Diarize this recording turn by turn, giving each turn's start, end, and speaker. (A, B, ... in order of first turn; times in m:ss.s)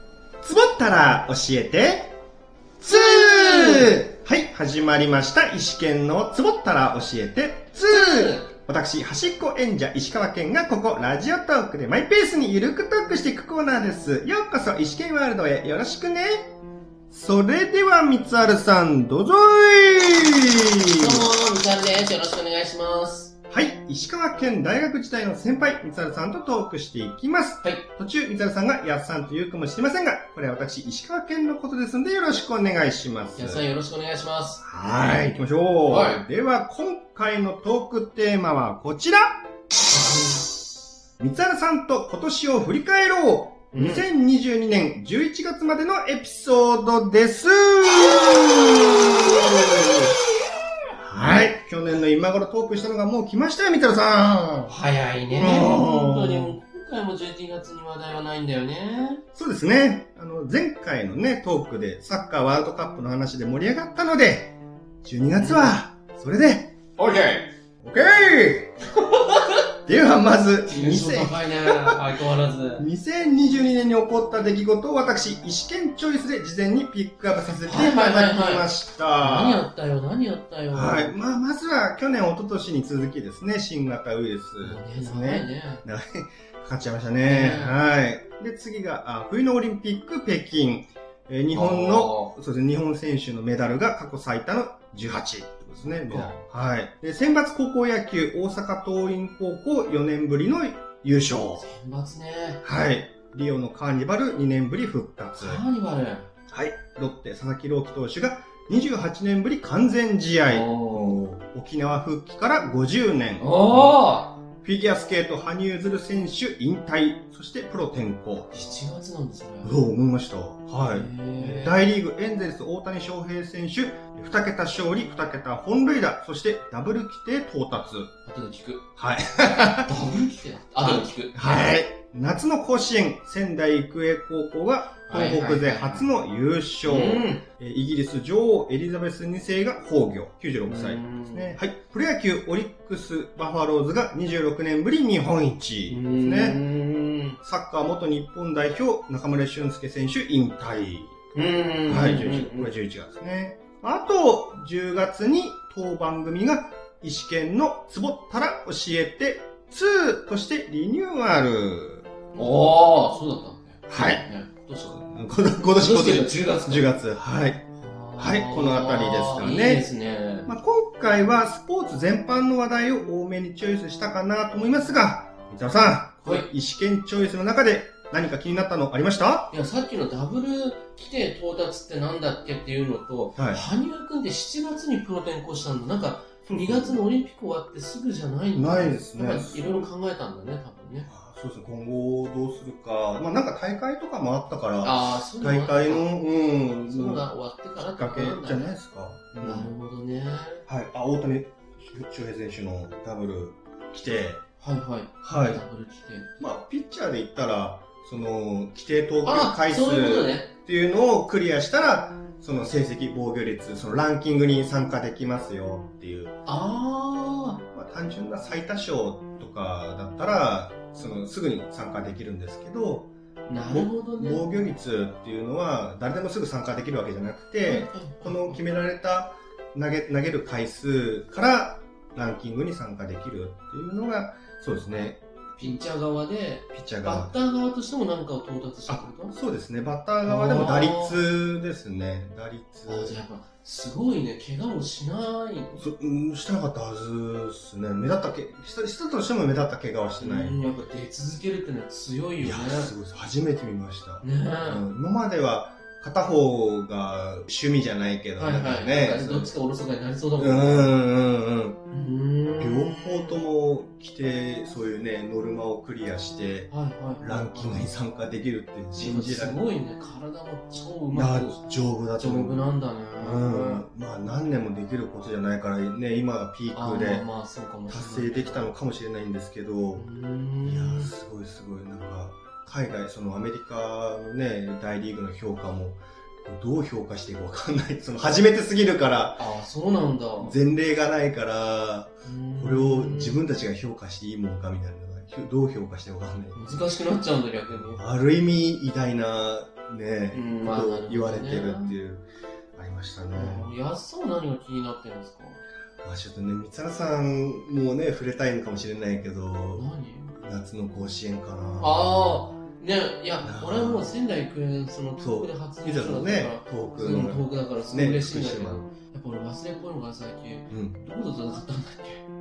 0:00.4-0:02.1 A
0:02.8-0:16.5 A
0:02.8-0:04.0 B
0:07.8-0:08.5 B
0:17.1-0:21.2 A
0:20.9-0:23.3 B
0:23.5-0:33.6 A
0:33.3-0:34.6 B
0:34.6-0:39.5 A
0:35.9-0:36.2 B
0:39.9-0:40.6 B
0:41.2-0:50.2 A
0:43.7-0:44.0 B
0:51.0-0:54.7 A
0:54.7-0:59.2 B
0:55.4-0:56.6 A
0:59.3-1:06.7 A
1:05.3-1:05.7 B
1:07.0-1:07.5 B
1:07.8-1:08.9 A
1:08.9-1:09.6 B
1:09.8-1:12.0 A
1:10.6-1:12.8 B
1:12.8-1:19.6 A
1:17.6-1:21.1 B
1:20.7-1:41.6 A
1:24.6-1:25.8 B
1:27.2-1:27.8 B
1:31.5-1:32.3 B
1:35.8-1:36.4 B
1:41.6-1:42.6 B
1:42.6-1:45.6 A
1:45.4-1:46.3 B
1:46.5-1:53.9 A
1:50.5-1:51.2 B
1:53.4-1:54.4 B
1:54.6-1:58.8 A
1:58.5-1:59.8 B
1:59.6-2:08.1 A
2:00.9-2:01.8 B
2:08.2-2:08.8 B
2:09.0-2:09.9 A
2:09.8-2:11.4 B
2:10.8-2:26.6 A
2:15.1-2:16.1 B
2:16.8-2:17.4 B
2:20.6-2:21.6 B
2:25.9-2:27.4 B
2:27.4-2:31.2 A
2:31.3-2:32.7 B
2:31.8-2:42.5 A
2:42.3-2:45.0 B
2:43.9-2:44.2 A
2:44.8-2:47.6 A
2:45.7-2:47.0 B
2:47.8-2:50.5 B
2:48.2-2:49.8 A
2:50.5-2:59.5 A
2:56.2-2:56.5 B
2:59.5-3:11.1 B
3:03.4-3:03.6 A
3:06.5-3:07.0 A
3:08.5-3:09.9 A
3:11.1-3:19.7 A
3:14.8-3:16.1 B
3:16.8-3:18.7 B
3:19.4-3:20.6 B
3:20.7-3:24.4 A
3:24.6-3:26.3 B
3:25.2-3:25.6 A
3:26.4-3:36.3 A
3:29.2-3:30.5 B
3:36.4-3:37.6 B
3:37.7-3:55.2 A
3:43.4-3:44.5 B
3:47.6-3:48.6 B
3:55.6-3:59.4 B
3:56.7-3:57.3 A
3:58.9-4:03.2 A
4:00.2-4:01.2 B
4:02.9-4:05.8 B
4:05.7-4:10.7 A
4:10.2-4:12.9 B
4:12.4-4:19.5 A
4:14.2-4:14.9 B
4:18.4-4:21.0 B
4:20.4-4:21.8 A
4:21.9-4:23.4 B
4:22.6-4:29.6 A
4:26.7-4:27.9 B
4:28.9-4:31.6 B
4:31.1-4:37.3 A
4:32.2-4:33.8 B
4:36.7-4:38.7 B
4:37.9-4:40.0 A
4:39.9-4:41.1 B
4:40.6-4:49.4 A
4:49.4-4:50.6 B
4:50.4-4:56.9 A
4:52.2-4:53.4 B
4:56.5-4:58.0 B
4:57.7-5:03.7 A
5:00.3-5:01.9 B
5:03.3-5:05.6 B
5:06.0-5:12.4 A
5:09.7-5:10.3 B
5:11.8-5:22.2 B
5:13.4-5:14.2 A
5:15.2-5:18.8 A
5:20.7-5:21.0 A